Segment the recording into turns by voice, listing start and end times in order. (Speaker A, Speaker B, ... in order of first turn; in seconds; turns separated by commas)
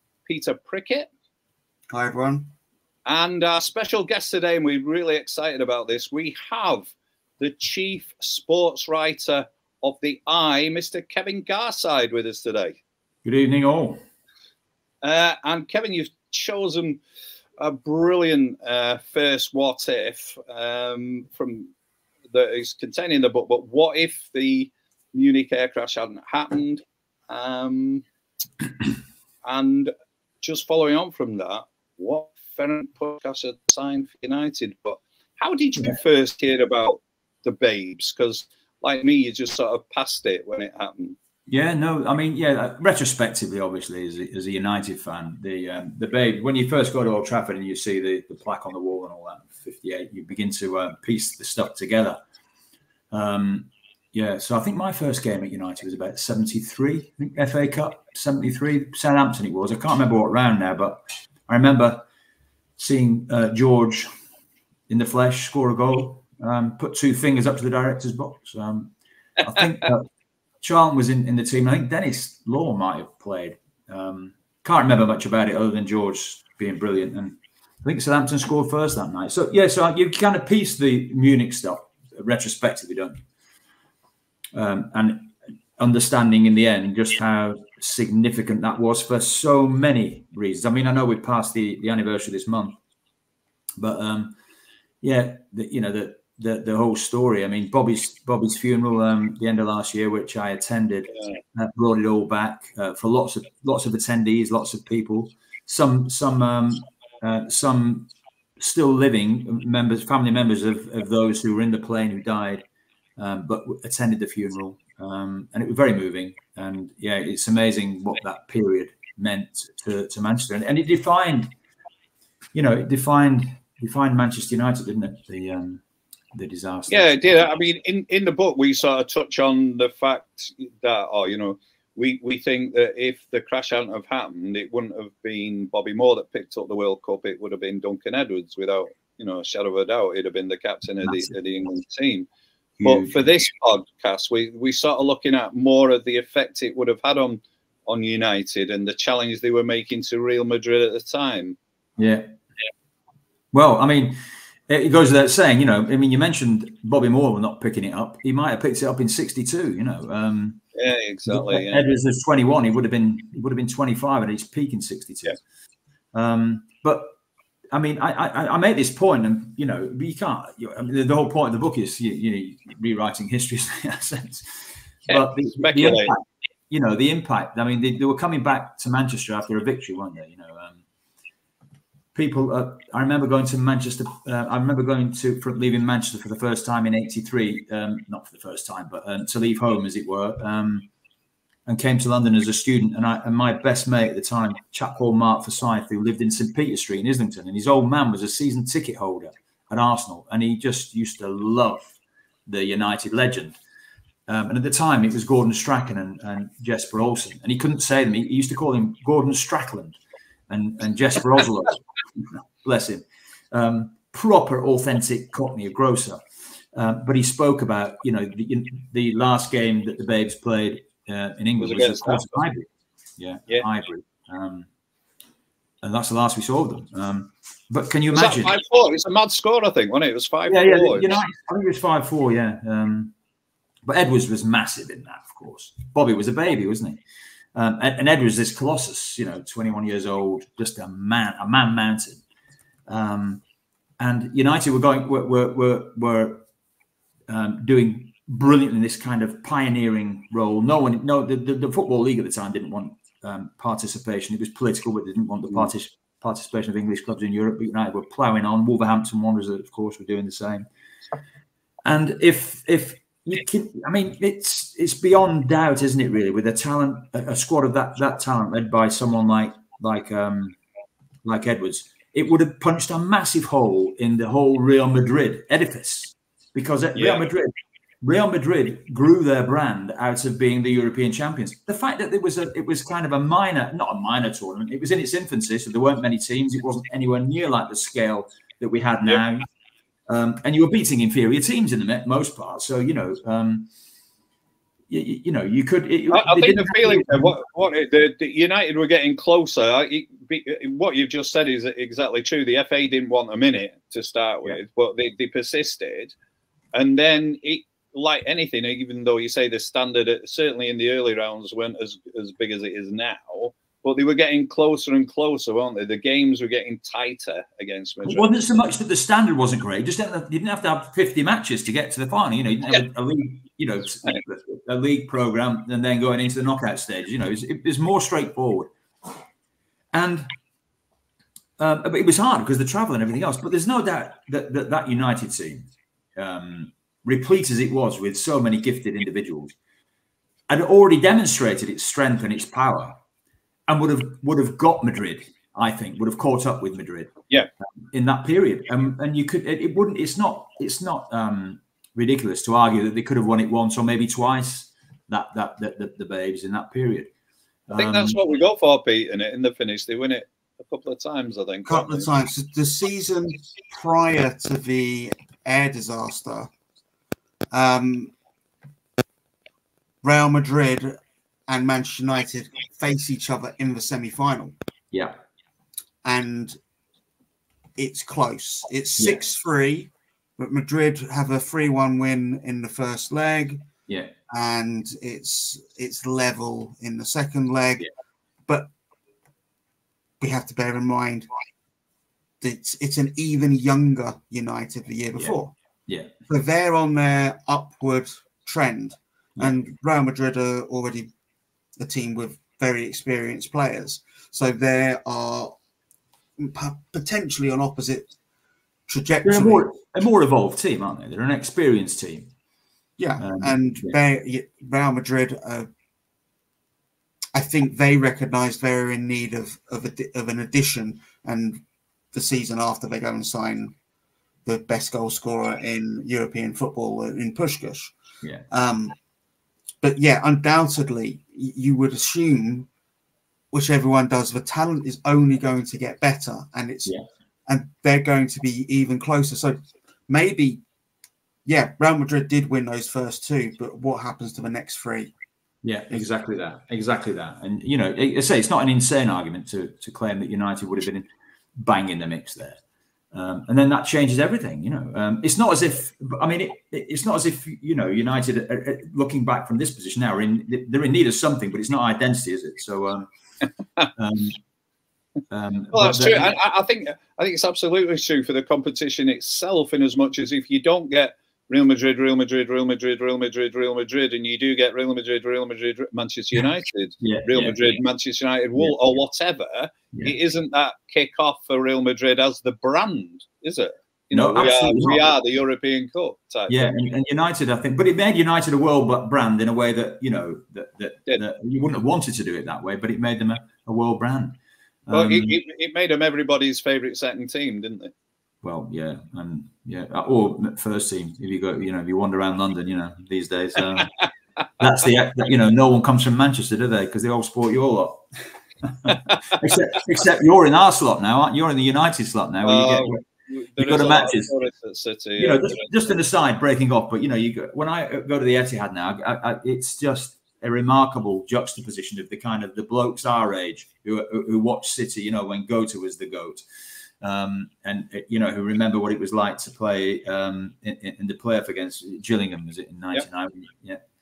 Speaker A: 0.2-1.1, Speaker B: 1.9-2.5, Speaker A: 3.0-12.8, Speaker C: 13.2-14.0, Speaker A: 15.0-17.0, Speaker A: 17.6-21.7, Speaker A: 22.3-28.0, Speaker A: 29.4-41.2, Speaker C: 41.5-52.2, Speaker C: 53.1-62.0, Speaker C: 62.8-64.1, Speaker C: 64.9-70.0, Speaker A: 69.6-69.9, Speaker C: 70.6-83.2, Speaker C: 84.5-92.8, Speaker C: 93.8-94.3, Speaker C: 95.0-112.6, Speaker C: 113.2-121.5, Speaker C: 122.5-125.8, Speaker C: 126.3-127.5, Speaker A: 126.9-142.3, Speaker C: 141.0-141.3, Speaker C: 142.8-143.2, Speaker A: 142.8-151.6, Speaker C: 152.0-152.3, Speaker C: 153.5-160.6, Speaker A: 160.7-161.8, Speaker C: 161.3-165.3, Speaker C: 166.1-167.1, Speaker C: 167.7-180.8, Speaker A: 175.1-176.1, Speaker C: 182.1-190.9, Speaker C: 191.7-201.9, Speaker C: 202.5-203.6, Speaker C: 204.3-210.0, Speaker C: 210.5-216.2, Speaker C: 216.7-222.7, Speaker A: 221.6-222.4, Speaker C: 223.2-224.7, Speaker C: 225.8-228.5, Speaker A: 228.1-231.2, Speaker C: 230.5-233.1, Speaker C: 233.8-237.0, Speaker C: 237.5-242.2, Speaker C: 242.9-243.4, Speaker C: 244.0-246.4, Speaker C: 247.3-260.6, Speaker C: 261.8-270.6, Speaker C: 271.2-277.5, Speaker A: 276.9-277.2, Speaker C: 278.0-289.4, Speaker C: 290.1-293.7, Speaker C: 294.9-297.4, Speaker A: 296.1-306.1, Speaker A: 306.7-318.3, Speaker C: 318.0-328.7, Speaker C: 329.9-330.3, Speaker C: 331.6-339.5, Speaker C: 340.5-343.0, Speaker C: 343.7-347.1, Speaker C: 347.9-357.1, Speaker C: 357.7-358.2, Speaker A: 357.8-362.1, Speaker B: 361.6-366.5, Speaker B: 367.5-368.1, Speaker B: 370.0-374.5, Speaker B: 376.0-376.6, Speaker B: 377.8-383.6, Speaker B: 384.3-387.9, Speaker B: 390.2-391.3, Speaker B: 392.4-395.5, Speaker B: 396.3-401.1, Speaker B: 401.8-405.6, Speaker B: 406.4-408.1, Speaker B: 408.9-409.6, Speaker C: 409.2-412.3, Speaker B: 413.0-415.7, Speaker C: 413.2-413.9, Speaker B: 417.3-423.7, Speaker B: 424.4-427.9, Speaker B: 428.5-428.9, Speaker B: 429.8-432.7, Speaker B: 433.5-436.9, Speaker B: 437.5-440.6, Speaker B: 441.4-445.1, Speaker C: 445.6-452.6, Speaker C: 453.1-463.1, Speaker C: 464.0-464.4, Speaker C: 465.3-466.3, Speaker A: 465.7-486.7, Speaker C: 477.0-477.8, Speaker C: 478.6-479.0, Speaker C: 484.1-485.0, Speaker C: 486.5-494.4, Speaker C: 494.9-495.4, Speaker A: 494.9-497.9, Speaker C: 498.4-503.9, Speaker A: 503.8-504.1, Speaker C: 504.6-508.0, Speaker C: 508.7-513.0, Speaker A: 508.9-509.4, Speaker A: 512.4-515.8, Speaker C: 513.6-514.3, Speaker C: 515.2-526.4, Speaker C: 527.0-533.8